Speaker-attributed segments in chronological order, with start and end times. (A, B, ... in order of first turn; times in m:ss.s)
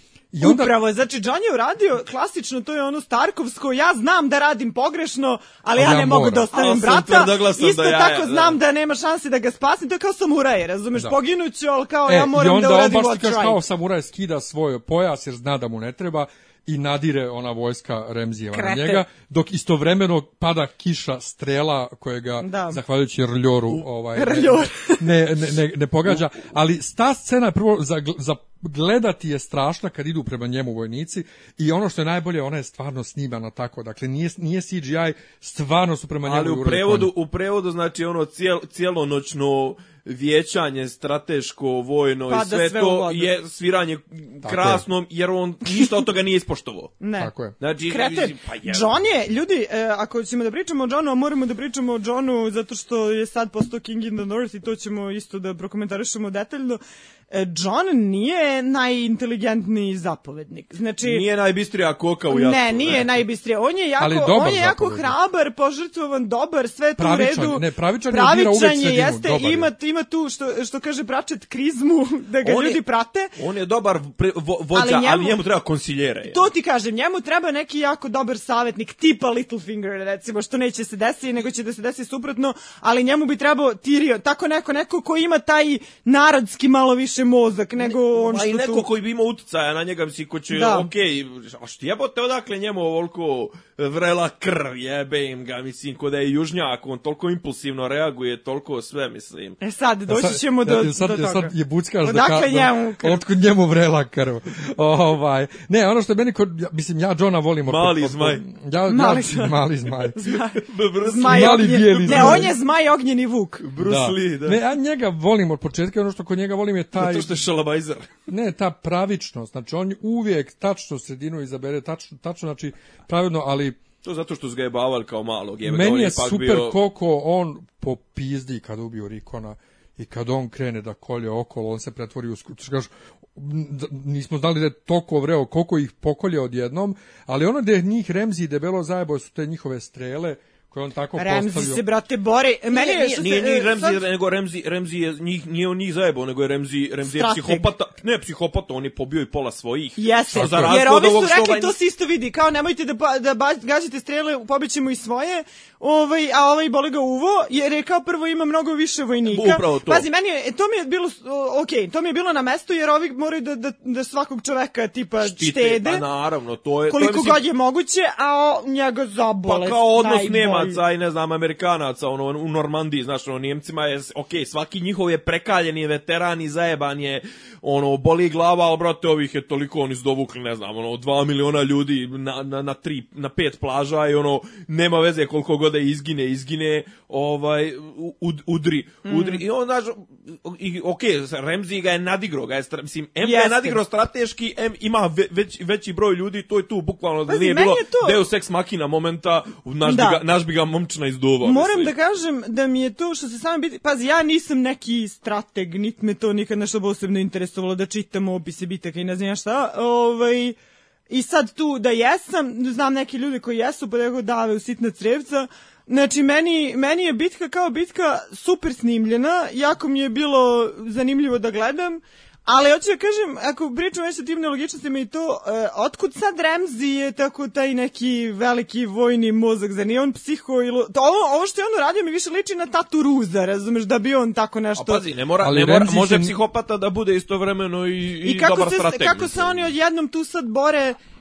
0:00.3-0:00.7 A
0:00.4-0:13.6 B
0:05.8-0:06.4 A
0:06.5-0:08.6 C
0:12.1-0:37.1 A
0:18.5-0:19.0 B
0:22.4-0:22.8 B
0:24.1-0:25.0 B
0:36.2-0:46.9 C
0:42.3-0:43.3 B
0:44.4-0:44.8 A
0:47.0-0:47.3 B
0:47.2-0:47.5 A
0:47.6-0:49.0 C
0:47.9-1:01.2 B
1:01.0-1:03.1 C
1:02.3-1:13.3 B
1:04.0-1:05.1 A
1:07.0-1:09.7 A
1:12.4-1:12.8 C
1:13.4-1:16.5 C
1:14.7-1:15.4 B
1:16.2-1:28.8 B
1:27.9-1:39.6 C
1:30.5-1:30.9 B
1:39.6-1:43.2 B
1:40.1-1:50.2 A
1:47.7-1:48.4 C
1:48.9-1:53.6 B
1:50.5-1:52.5 C
1:51.3-1:52.5 A
1:53.6-1:54.6 C
1:53.8-1:57.4 A
1:56.9-1:58.1 C
1:58.3-2:03.8 A
2:04.0-2:06.8 C
2:05.6-2:21.8 A
2:21.2-2:24.0 B
2:22.7-2:31.7 C
2:27.0-2:27.7 B
2:30.0-2:46.0 B
2:30.3-2:30.7 A
2:39.3-2:40.0 C
2:45.2-2:47.4 C
2:46.9-2:50.8 B
2:49.5-3:21.9 C
3:09.0-3:09.4 B
3:13.2-3:13.8 B
3:17.3-3:18.2 B
3:19.8-3:20.2 B
3:21.4-3:30.6 B
3:31.1-3:55.0 B
3:54.8-3:59.7 C
3:55.4-3:56.4 A
3:58.2-4:01.0 B